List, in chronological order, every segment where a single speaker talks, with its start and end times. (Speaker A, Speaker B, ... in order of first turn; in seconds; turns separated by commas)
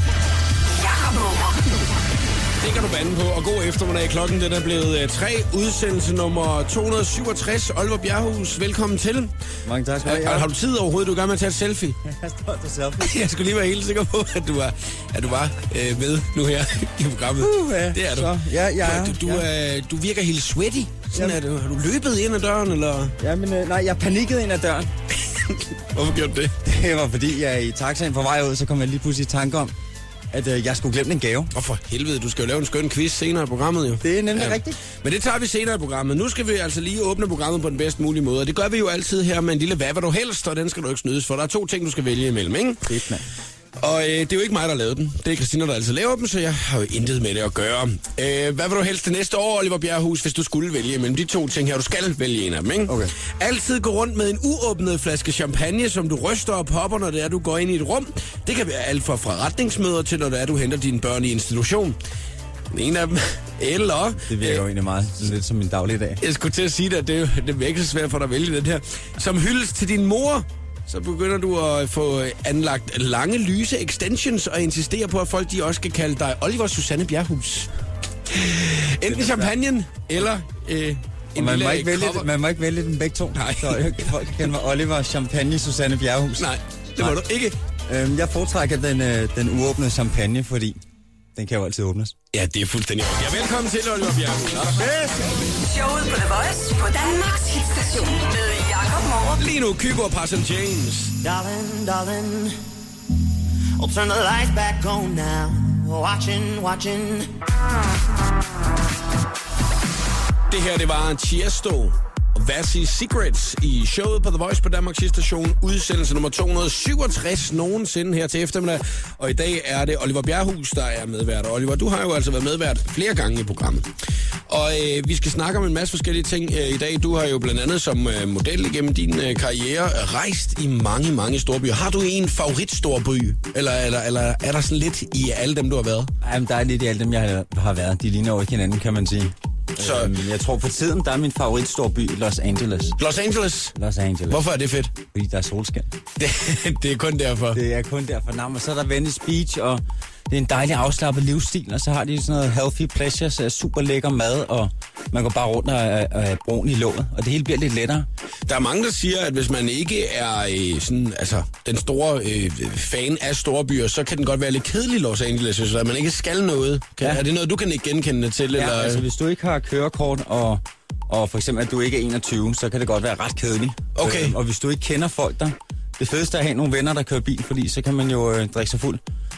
Speaker A: 0.8-1.6, Speaker B: 2.6-9.3, Speaker C: 9.7-10.5, Speaker B: 10.0-12.0, Speaker C: 12.1-13.2, Speaker B: 13.0-18.3, Speaker C: 17.4-19.5, Speaker B: 18.8-23.1, Speaker C: 23.2-24.9, Speaker B: 25.2-26.6, Speaker C: 26.6-29.7, Speaker C: 30.3-31.5, Speaker B: 31.5-42.9, Speaker C: 34.0-34.8, Speaker C: 42.9-43.2, Speaker B: 43.8-62.0, Speaker C: 52.9-53.1, Speaker B: 62.7-64.6, Speaker C: 64.3-66.2, Speaker B: 66.2-77.7, Speaker B: 78.3-82.3, Speaker C: 79.1-79.5, Speaker C: 81.4-87.2, Speaker B: 83.3-84.1, Speaker B: 86.4-87.5, Speaker C: 87.9-90.8, Speaker C: 91.3-92.2, Speaker B: 92.3-94.8, Speaker C: 94.8-95.3, Speaker A: 95.7-99.4, Speaker B: 99.4-101.2, Speaker D: 101.2-102.5, Speaker D: 103.8-107.3, Speaker B: 110.5-123.9, Speaker B: 124.5-136.1, Speaker C: 136.2-143.0, Speaker B: 139.8-140.2, Speaker B: 143.0-143.8, Speaker C: 143.8-144.4, Speaker B: 144.3-144.9, Speaker C: 145.1-145.9, Speaker B: 146.2-147.6, Speaker C: 147.5-158.1, Speaker B: 158.5-169.0, Speaker C: 168.5-179.0, Speaker B: 174.0-174.4